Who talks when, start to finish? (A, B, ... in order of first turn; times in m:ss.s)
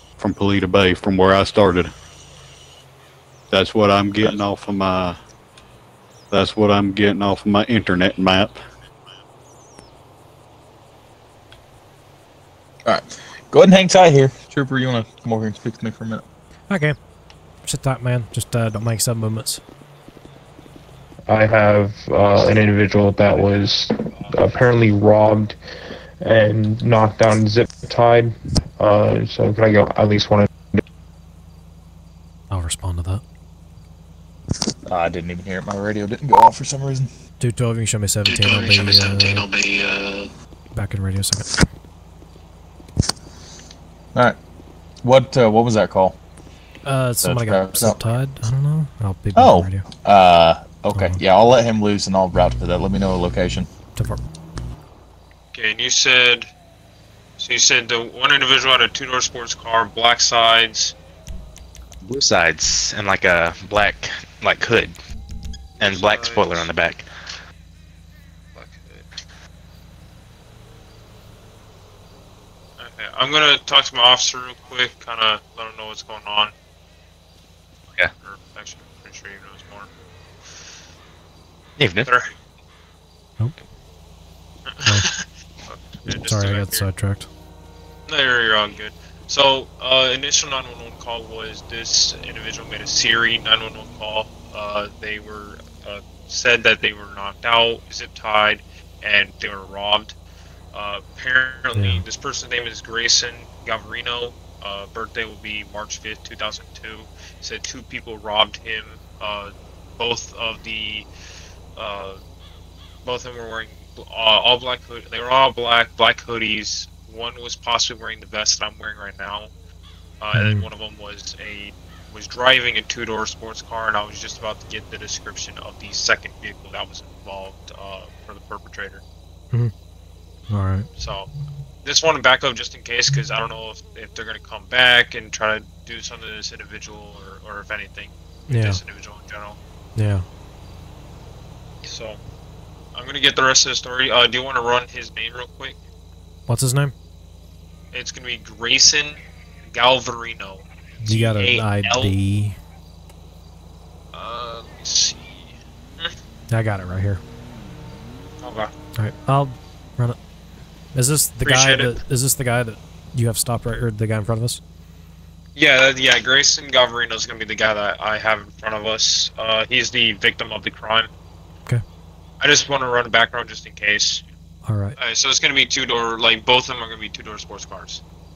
0:00.2-0:01.9 A
0:03.5-0:05.2 A
0:06.3-0:08.6 A
0:12.8-0:16.2 B
0:16.7-0:17.0 C
0:17.6-0:19.6 C
0:21.3-0:25.6 D
0:26.2-0:30.8 D
0:32.5-0:33.2 C
0:34.8-0:37.1 B
0:37.4-0:39.5 C
0:39.6-0:40.2 B
0:40.7-0:41.7 C
0:45.0-0:46.2 B
0:46.8-0:49.8 C
0:47.2-0:48.0 B
0:49.3-0:53.7 B
0:50.9-0:51.2 C
0:54.0-0:54.2 C
0:55.5-0:56.5 E
0:57.4-1:00.9 E
1:02.0-1:05.0 F
1:05.8-1:07.1 F
1:05.8-1:06.7 E
1:08.6-1:09.1 E
1:12.8-1:16.5 E
1:18.2-1:19.9 E
1:21.8-1:22.1 F
1:22.0-1:22.3 E
1:24.7-1:26.8 E
1:26.1-1:27.3 C
1:28.1-1:40.1 E
1:40.7-1:51.1 E
1:41.7-1:42.0 C
1:51.8-1:52.2 E
1:53.0-1:59.5 E
2:00.2-2:09.0 E
2:00.3-2:00.6 C
2:10.5-2:10.9 C
2:11.0-2:11.3 E
2:11.8-2:19.6 E
2:18.5-2:18.8 C
2:20.0-2:20.2 C
2:21.8-2:22.2 E
2:22.9-2:25.8 E
2:26.5-2:26.9 C
2:27.9-2:32.1 E
2:31.0-2:32.6 C
2:34.1-2:36.1 E
2:36.5-2:37.2 C
2:38.4-2:38.7 E
2:39.0-2:40.2 C
2:40.9-2:44.6 C
2:41.4-2:41.9 E
2:45.6-2:51.1 E
2:52.4-2:54.2 E
2:54.6-2:55.0 C
2:55.0-2:58.0 E